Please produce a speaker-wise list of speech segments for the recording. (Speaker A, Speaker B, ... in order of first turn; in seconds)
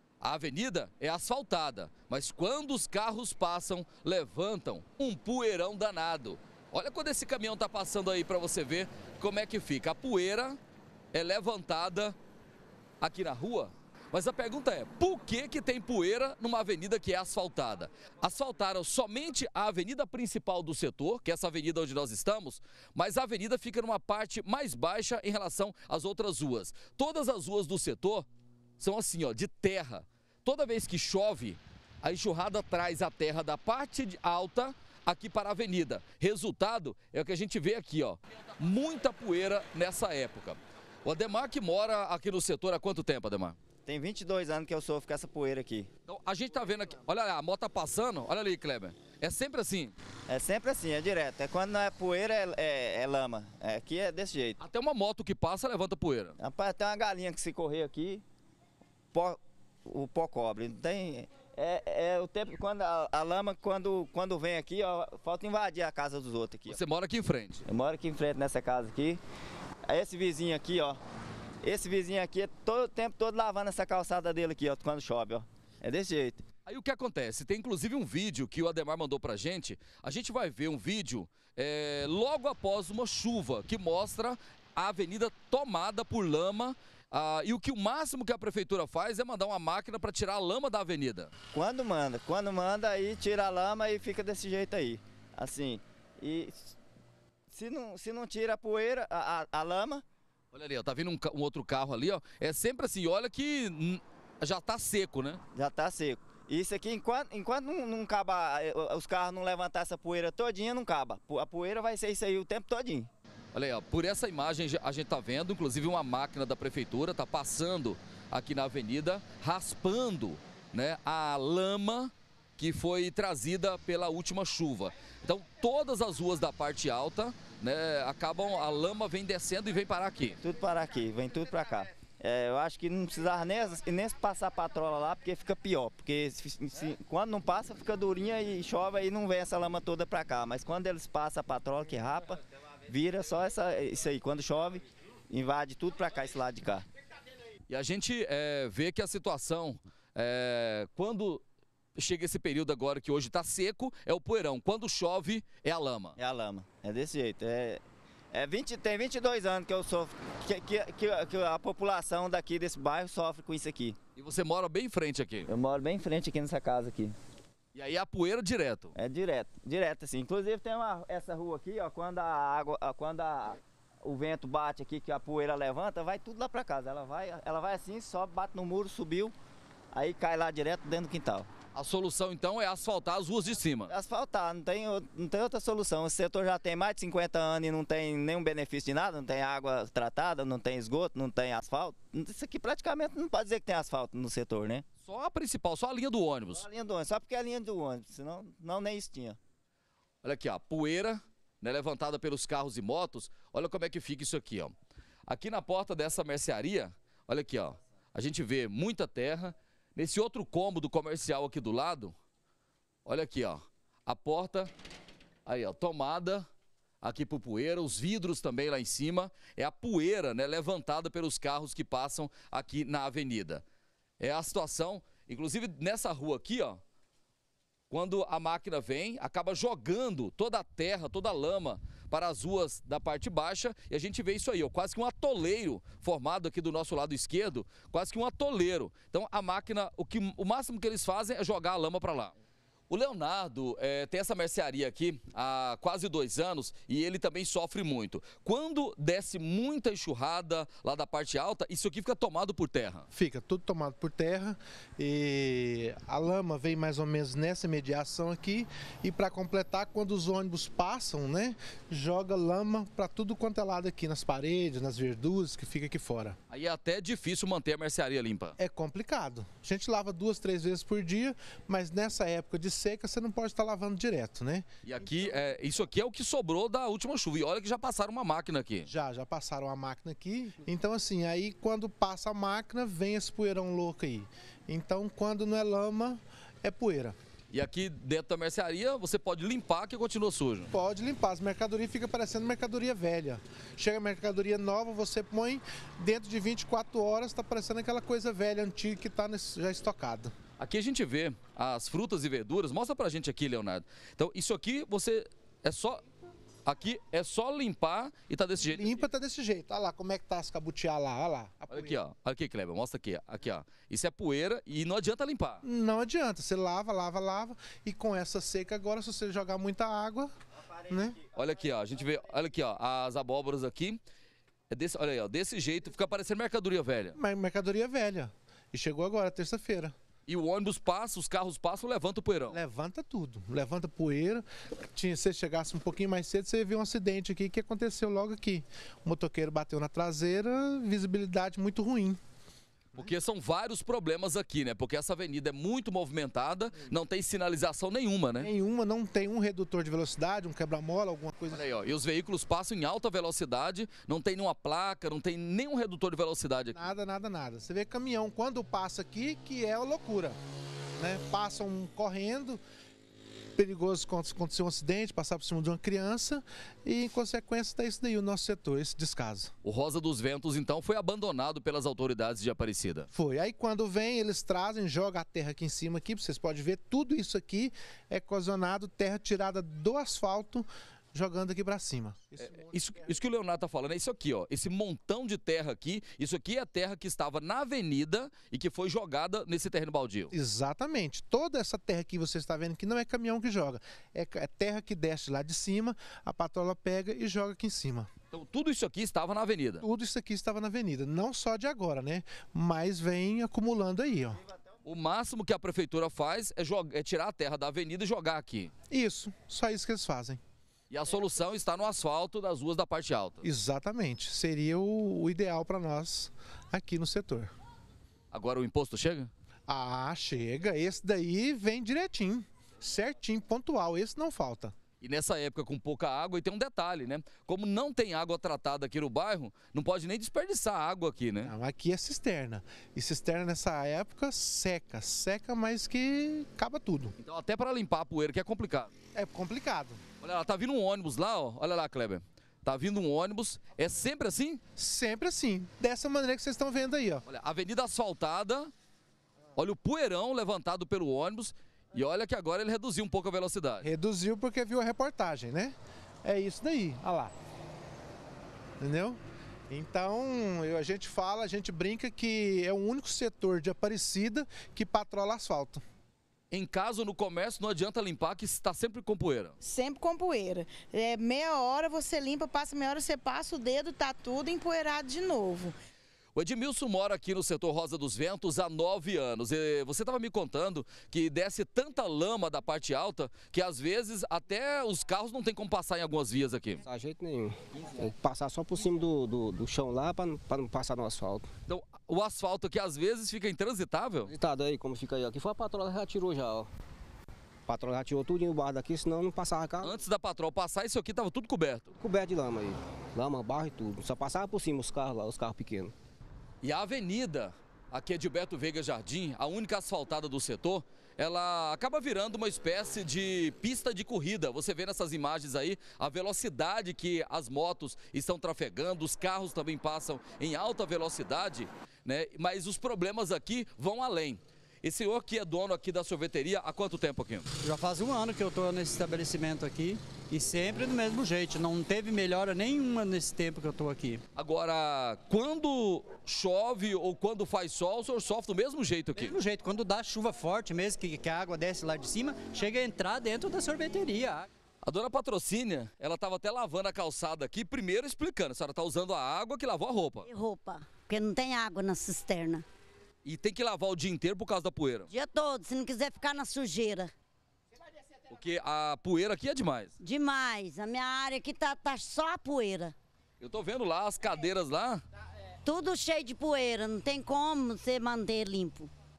Speaker A: 0.2-10.6, 11.1-12.2, 13.0-28.3, 28.8-43.6, 46.1-49.9, 54.6-56.4, 66.7-67.6, 76.7-91.3, 100.5-105.4, 113.5-130.4, 147.7-151.4, 152.0-156.2, 164.2-165.5, 167.7-168.9, 181.7-183.9, 195.0-196.7, 200.2-204.7, 205.3-212.1, 213.1-214.7, 215.5-216.5, 217.0-223.6, 224.2-226.8, 227.9-242.3, 242.9-253.1, 266.5-268.6, 274.8-278.9, 287.5-290.7, 300.6-306.0, 306.6-308.9, 311.7-315.6, 321.4-324.0, 324.7-327.2, 330.3-332.6, 343.0-348.5, 351.5-356.8, 369.6-373.1, 382.4-390.3, 398.3-399.9, 404.9-408.7, 410.9-413.4, 418.3-419.3, 425.0-431.5, 437.2-438.9, 440.2-444.6, 447.3-448.7, 449.6-453.9, 466.5-469.6, 476.4-486.8, 491.7-494.3, 499.8-501.9, 506.6-527.5, 534.4-539.4, 544.8-550.3, 553.2-555.1, 558.3-559.9, 563.4-565.0
Speaker B: 43.9-45.9, 50.3-54.6, 56.4-58.2, 59.1-66.8, 67.7-69.2, 69.9-71.0, 71.6-76.4, 91.5-96.7, 97.5-100.0, 105.5-113.1, 130.4-146.8, 156.2-157.8, 158.3-164.0, 165.5-167.2, 169.0-179.3, 179.9-181.5, 183.9-194.8, 196.5-199.4, 320.7-321.0
Speaker C: 253.1-266.4, 268.6-274.7, 278.9-287.1, 290.7-300.3, 308.7-312.0, 315.6-320.3, 320.9-321.2, 327.1-329.9, 332.5-342.2, 348.4-351.6, 356.7-360.4, 361.0-362.6, 363.6-369.5, 373.1-383.1, 390.3-398.1, 399.8-404.4, 408.9-410.4, 413.4-417.5, 419.7-424.7, 431.4-437.1, 439.1-440.0, 444.8-447.2, 453.8-457.3, 458.8-459.2, 459.7-465.8
Speaker D: 469.6-475.7
Speaker E: 486.9-491.5, 494.3-496.7, 497.7-500.0, 501.9-505.9
Speaker F: 528.2-534.1, 539.3-544.4
Speaker G: 550.2-552.6, 555.1-557.1, 560.0-562.9, 565.6-568.9